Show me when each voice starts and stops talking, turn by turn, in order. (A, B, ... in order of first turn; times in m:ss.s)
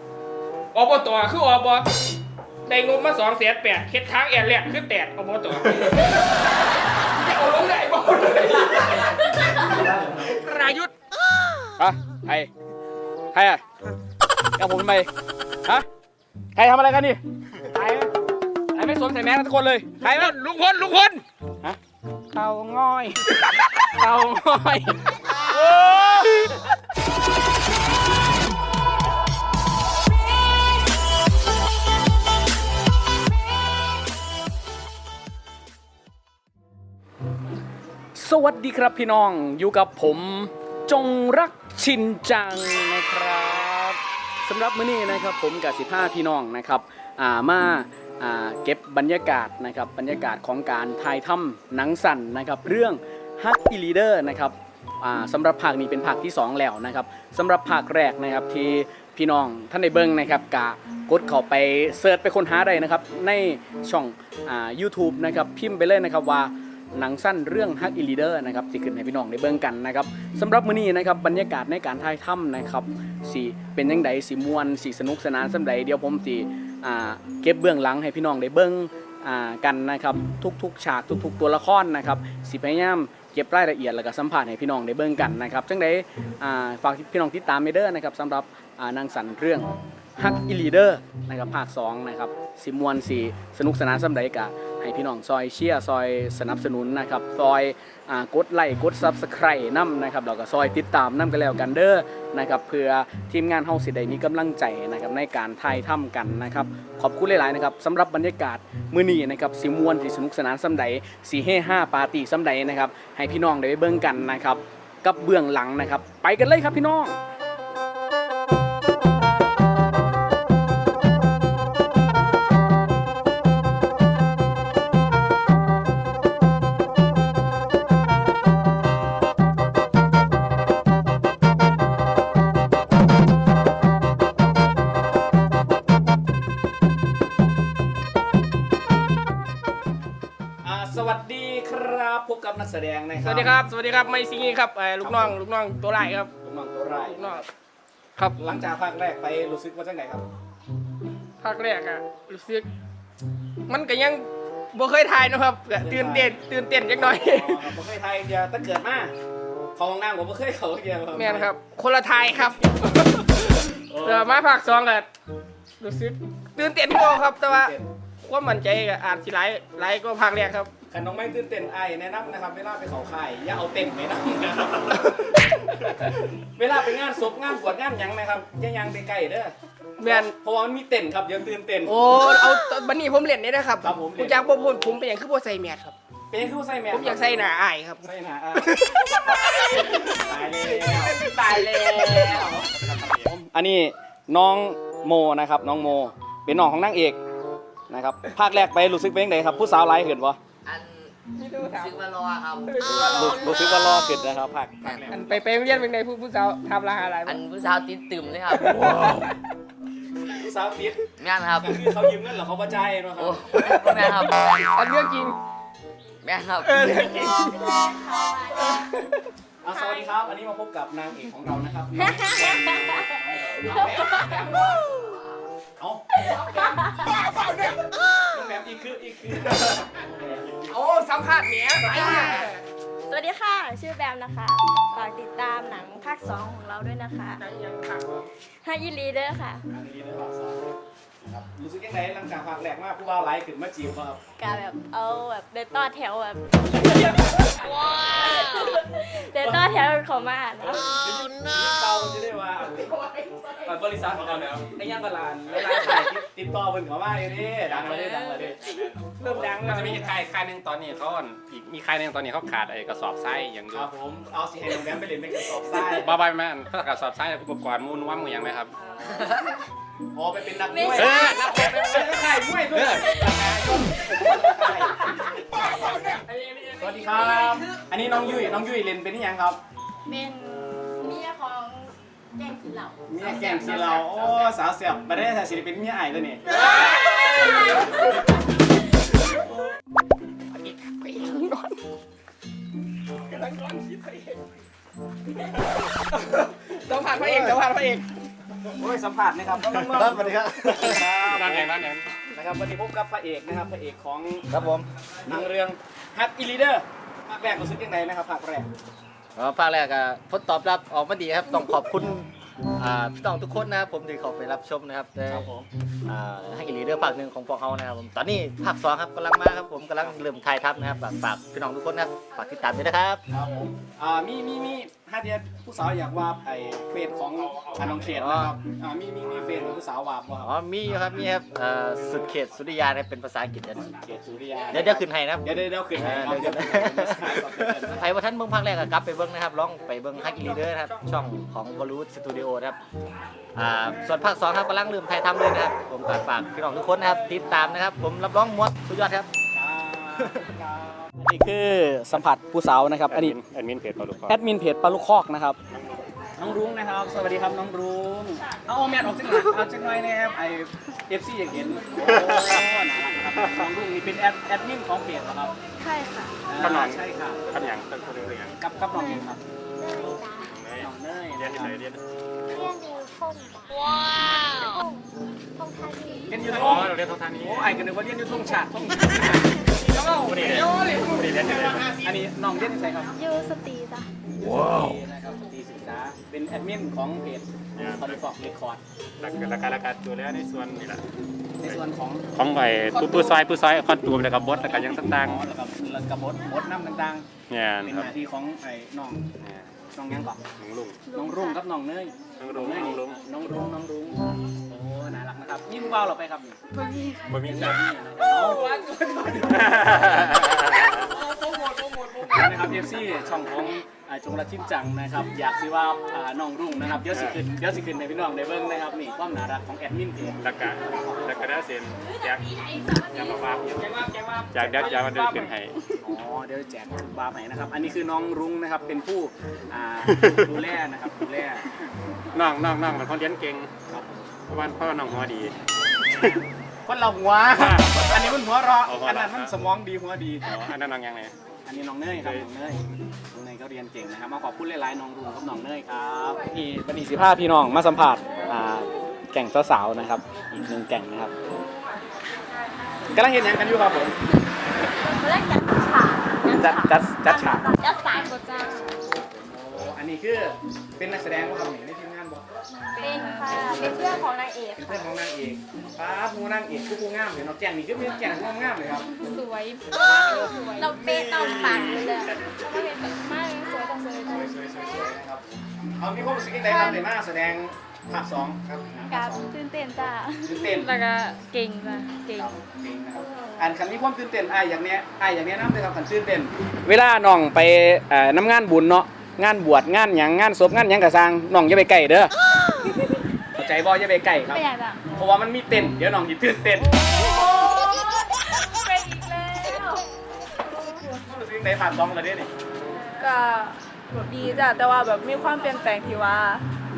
0:00.7-0:01.8 A
0:02.6-0:06.4 A
0:07.2-0:10.9 A
0:11.8-0:12.5 B
0:13.3-0:13.6 B
0:14.6-0:15.1 B
0:16.6-0:17.2 B
0:17.7-0:18.0 B
0:18.7-0:20.3 B
0:20.0-0:21.2 A
0:22.3-0:26.6 B
0:38.2-1:57.2 B
2:20.6-2:23.5 B
2:23.2-2:26.3 A
2:25.0-2:25.3 B
2:26.4-2:27.4 B
2:27.1-2:27.4 A
2:28.4-2:30.2 B
2:31.4-2:32.7 A
2:33.7-2:37.6 A
2:35.8-2:36.4 B
2:36.9-2:39.1 B
2:39.8-2:41.5 B
2:41.1-2:45.1 A
2:43.8-2:44.4 B
2:45.8-2:50.7 A
2:47.4-2:47.8 B
2:50.9-3:02.0 B
3:00.0-3:00.3 A
3:01.8-3:05.9 A
3:03.8-3:04.4 B
3:06.3-3:07.2 B
3:06.9-3:08.1 A
3:08.0-3:17.2 B
3:08.7-3:08.9 A
3:11.2-3:12.0 A
3:12.6-3:13.3 C
3:17.9-3:20.4 B
3:20.6-3:23.5 D
3:21.4-3:22.0 A
3:22.6-3:23.8 A
3:23.1-3:25.2 B
3:24.8-3:25.1 D
3:25.1-3:27.4 A
3:27.2-3:28.9 D
3:28.6-3:28.9 A
3:30.3-3:31.0 B
3:31.2-3:31.8 D
3:31.6-3:33.6 B
3:33.2-3:34.7 D
3:33.6-3:35.4 A
3:36.2-3:37.2 D
3:36.6-3:37.7 A
3:37.4-3:38.9 E
3:39.6-3:44.2 B
3:42.0-3:43.0 E
3:43.7-3:44.8 E
3:43.9-3:44.7 A
3:45.8-3:46.3 B
3:46.4-3:46.8 A
3:46.5-3:46.9 E
3:48.3-3:50.7 B
3:50.6-3:52.6 A
3:51.9-3:52.4 E
3:53.1-3:57.4 E
3:57.4-3:58.3 A
3:58.6-3:59.6 E
3:59.7-4:00.6 B
4:01.2-4:04.2 B
4:04.4-4:11.0 E
4:09.2-4:09.6 B
4:11.0-4:12.9 B
4:12.8-4:13.8 E
4:13.6-4:18.6 B
4:14.1-4:14.6 C
4:17.6-4:23.9 C
4:19.2-4:20.1 A
4:23.7-4:26.1 B
4:26.0-4:28.7 C
4:30.1-4:35.1 B
4:30.7-4:31.5 E
4:30.9-4:32.2 C
4:32.7-4:33.0 C
4:35.9-4:36.1 E
4:36.1-4:36.8 A
4:36.7-4:39.6 B
4:37.1-4:37.5 E
4:40.1-4:43.9 E
4:43.1-4:46.4 B
4:46.5-4:47.9 A
4:46.6-4:47.8 E
4:50.5-4:51.7 A
4:53.3-4:54.4 A
4:56.1-4:58.1 A
4:57.2-4:57.6 F
4:58.7-5:01.7 B
4:59.6-5:01.0 F
5:01.2-5:02.1 C
5:02.3-5:04.5 B
5:04.5-5:05.5 F
5:05.2-5:08.7 B
5:09.3-5:15.5 F
5:15.3-5:15.7 B
5:16.0-5:23.2 F
5:23.3-5:30.5 B
5:27.4-5:28.3 C
5:28.0-5:28.5 F
5:30.4-5:33.9 F
5:33.8-5:38.0 B
5:34.7-5:42.8 F
5:40.1-5:40.8 B
5:43.5-5:49.3 F
5:49.5-5:53.4 B
5:53.1-5:54.4 C
5:54.3-5:55.6 B
5:55.7-5:56.0 C
5:56.4-6:05.5 B
6:02.0-6:02.6 C
6:05.8-6:06.3 E
6:06.5-6:07.7 B
6:06.6-6:08.6 C
6:08.6-6:09.4 B
6:09.8-6:10.5 E
6:10.4-6:12.0 C
6:10.8-6:11.7 B
6:12.5-6:13.9 E
6:14.4-6:15.0 E
6:15.6-6:16.5 E
6:16.3-6:19.6 B
6:16.4-6:17.8 C
6:19.7-6:22.0 A
6:20.2-6:22.0 C
6:22.0-6:23.1 B
6:23.1-6:24.1 E
6:24.4-6:28.8 B
6:27.7-6:28.2 C
6:29.2-6:31.0 C
6:31.6-6:32.2 B
6:32.3-6:35.4 C
6:32.9-6:33.3 B
6:34.7-6:37.3 B
6:37.5-6:38.1 C
6:37.8-6:39.2 B
6:39.4-6:39.7 C
6:39.9-6:40.4 B
6:40.6-6:41.0 C
6:41.1-6:41.6 E
6:41.1-6:46.6 B
6:42.4-6:43.2 C
6:46.7-6:47.5 E
6:47.3-6:47.8 C
6:47.5-6:48.6 B
6:48.3-6:49.7 A
6:49.5-6:51.0 C
6:51.1-6:52.8 A
6:52.3-7:00.4 B
6:57.1-6:57.4 C
7:00.4-7:03.9 C
7:00.9-7:03.6 E
7:03.7-7:05.5 A
7:04.5-7:05.8 C
7:06.0-7:11.7 B
7:12.3-7:13.7 C
7:13.9-7:14.2 B
7:14.5-7:15.5 C
7:16.8-7:20.4 B
7:17.6-7:19.6 C
7:20.4-7:21.3 C
7:21.6-7:31.3 B
7:22.2-7:22.5 C
7:33.1-7:34.2 B
7:34.9-7:38.9 E
7:36.5-7:37.8 B
7:38.9-7:42.4 B
7:42.8-7:45.1 E
7:44.8-7:49.1 B
7:49.0-7:55.0 E
7:50.9-7:52.1 B
7:54.3-7:59.5 B
7:56.6-7:57.0 E
7:59.1-8:02.6 E
8:00.4-8:00.9 B
8:02.3-8:12.3 B
8:03.3-8:03.7 E
8:13.6-8:17.0 B
8:14.5-8:15.0 E
8:16.9-8:20.0 E
8:19.5-8:19.8 G
8:20.6-8:21.2 E
8:21.2-8:22.5 B
8:23.2-8:26.6 G